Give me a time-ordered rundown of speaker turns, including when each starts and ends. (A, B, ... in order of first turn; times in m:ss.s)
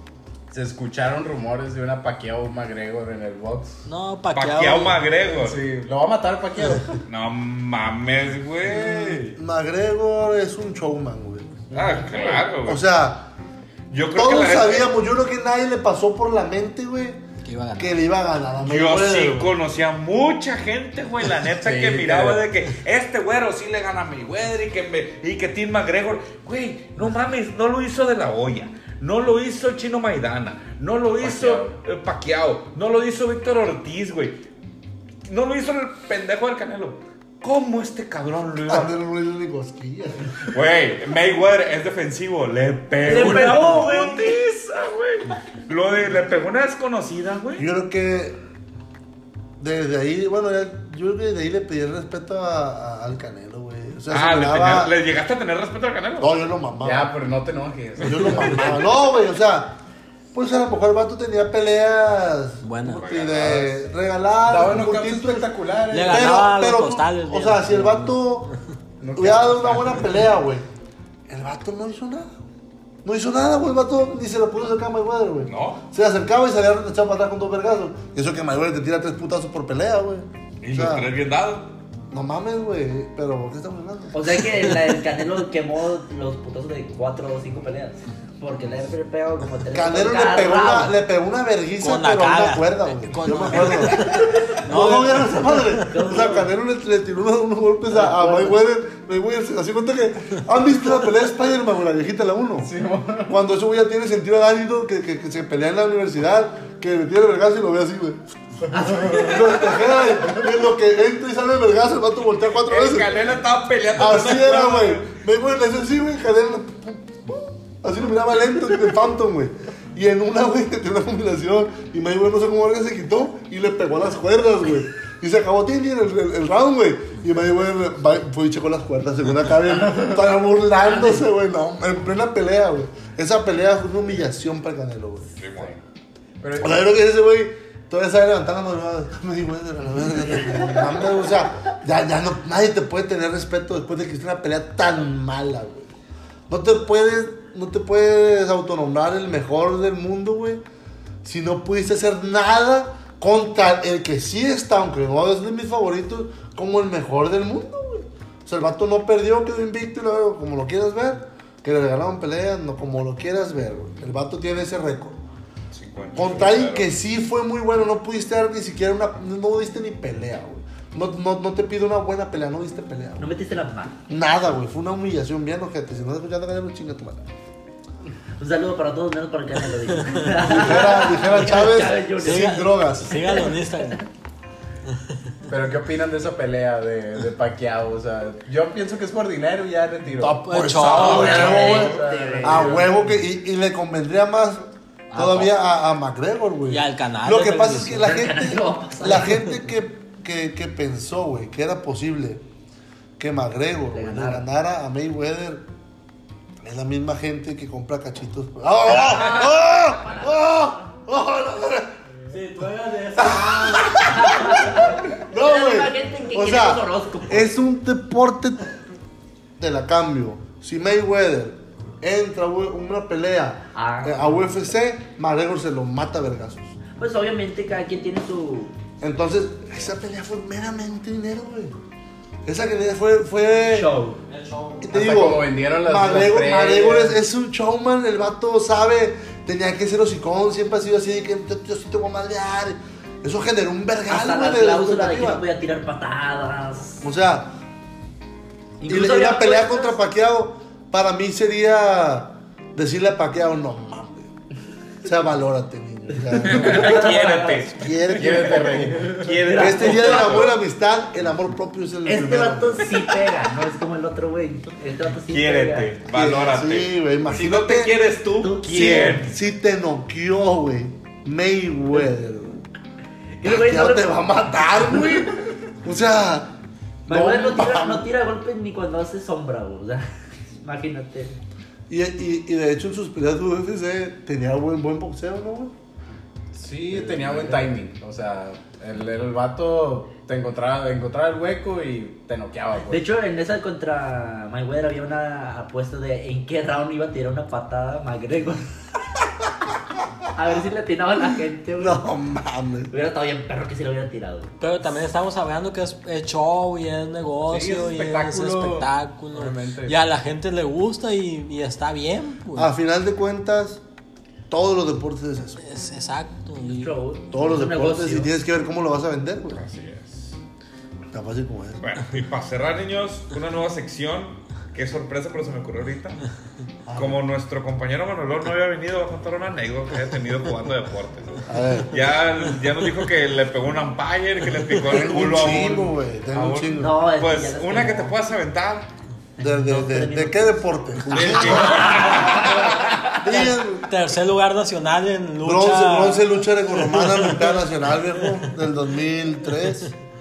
0:00.5-0:03.8 A
0:03.9-0:05.0 B
0:04.3-0:05.6 C
0:05.3-0:07.0 A
0:07.1-0:09.4 C
0:08.6-0:11.6 D
0:11.7-0:12.5 A
0:11.7-0:12.8 C
0:12.6-0:13.3 D
0:13.9-0:14.9 C
0:14.1-0:17.2 D
0:17.4-0:18.0 B
0:17.8-0:19.5 D
0:18.6-0:34.4 C
0:21.6-0:22.5 A
0:31.2-0:31.8 A
0:35.3-0:38.9 C
0:38.7-0:40.3 D
0:40.5-0:47.7 C
0:43.0-0:44.4 E
0:47.6-0:48.4 D
0:49.6-0:55.0 D
0:54.1-0:56.3 C
0:56.2-0:57.1 D
0:56.8-0:58.8 A
0:58.0-0:59.8 D
1:00.3-1:05.5 D
1:02.6-1:03.0 B
1:02.9-1:03.8 C
1:04.5-1:06.4 A
1:05.9-1:08.2 B
1:06.0-1:08.5 D
1:09.0-1:10.3 A
1:09.2-1:10.7 D
1:11.3-1:12.3 D
1:13.0-1:21.1 D
1:15.5-1:15.8 C
1:20.6-1:21.7 C
1:22.1-1:24.5 D
1:24.1-1:30.9 E
1:29.7-1:42.7 D
1:31.8-1:35.9 B
1:35.7-1:36.5 E
1:37.9-1:38.6 E
1:42.6-1:43.3 A
1:43.3-1:48.2 D
1:48.7-1:49.5 E
1:48.8-1:49.3 A
1:48.9-1:53.2 D
1:52.6-1:54.6 A
1:53.3-1:55.0 C
1:54.0-2:15.3 D
2:15.4-2:15.8 C
2:16.4-2:16.8 A
2:16.6-2:25.9 D
2:26.5-2:30.6 D
2:31.2-2:45.2 D
2:45.7-2:46.9 C
2:46.2-2:53.3 D
2:53.2-2:54.0 E
2:54.1-2:57.3 D
2:58.4-3:02.6 E
3:00.0-3:00.7 B
3:00.5-3:03.4 D
3:01.8-3:04.1 B
3:05.5-3:13.0 A
3:10.2-3:11.6 B
3:10.2-3:14.6 D
3:10.9-3:12.9 E
3:11.0-3:12.0 C
3:15.1-3:15.6 B
3:15.1-3:22.4 D
3:16.7-3:18.0 B
3:18.0-3:19.6 E
3:23.2-3:25.6 D
3:23.9-3:24.4 E
3:26.6-3:31.9 D
3:28.9-3:30.7 E
3:32.3-3:34.1 B
3:33.2-3:38.7 D
3:34.0-3:37.5 E
3:39.6-3:46.8 D
3:43.8-3:44.5 E
3:47.0-3:48.7 E
3:49.0-3:51.7 D
3:52.4-3:53.9 D
3:53.7-3:54.2 E
3:54.3-3:54.8 B
3:54.8-4:05.4 D
3:54.9-3:57.2 A
4:04.1-4:07.0 E
4:07.0-4:07.5 D
4:08.8-4:10.0 E
4:08.9-4:14.3 D
4:15.0-4:17.2 D
4:16.3-4:17.7 E
4:16.4-4:20.4 C
4:17.7-4:18.9 D
4:18.2-4:19.3 A
4:19.4-4:20.6 E
4:19.6-4:23.0 D
4:22.1-4:25.9 E
4:25.3-4:29.4 C
4:26.1-4:28.0 D
4:28.4-4:29.2 E
4:28.6-4:32.6 D
4:33.4-4:34.3 E
4:33.4-4:36.5 D
4:37.1-4:38.1 D
4:37.1-4:40.1 E
4:40.6-4:41.4 E
4:41.9-4:45.7 D
4:46.5-4:53.0 A
4:47.0-4:47.4 D
4:52.9-4:58.7 E
5:00.3-5:02.1 E
5:01.8-5:02.9 D
5:02.9-5:04.5 E
5:04.6-5:12.7 B
5:07.5-5:10.0 A
5:12.6-5:13.8 D
5:14.5-5:15.6 D
5:15.6-5:16.9 B
5:16.7-5:18.3 E
5:17.3-5:19.6 D
5:19.5-5:20.4 C
5:21.1-5:21.8 D
5:21.8-5:26.2 C
5:26.9-5:27.2 D
5:27.0-5:38.9 C
5:31.5-5:32.0 D
5:34.9-5:37.0 D
5:36.8-5:38.2 E
5:39.4-5:40.6 E
5:39.4-5:42.0 D
5:41.1-5:43.0 C
5:41.3-5:42.8 E
5:43.2-5:43.9 D
5:43.4-5:47.5 B
5:45.4-5:49.9 D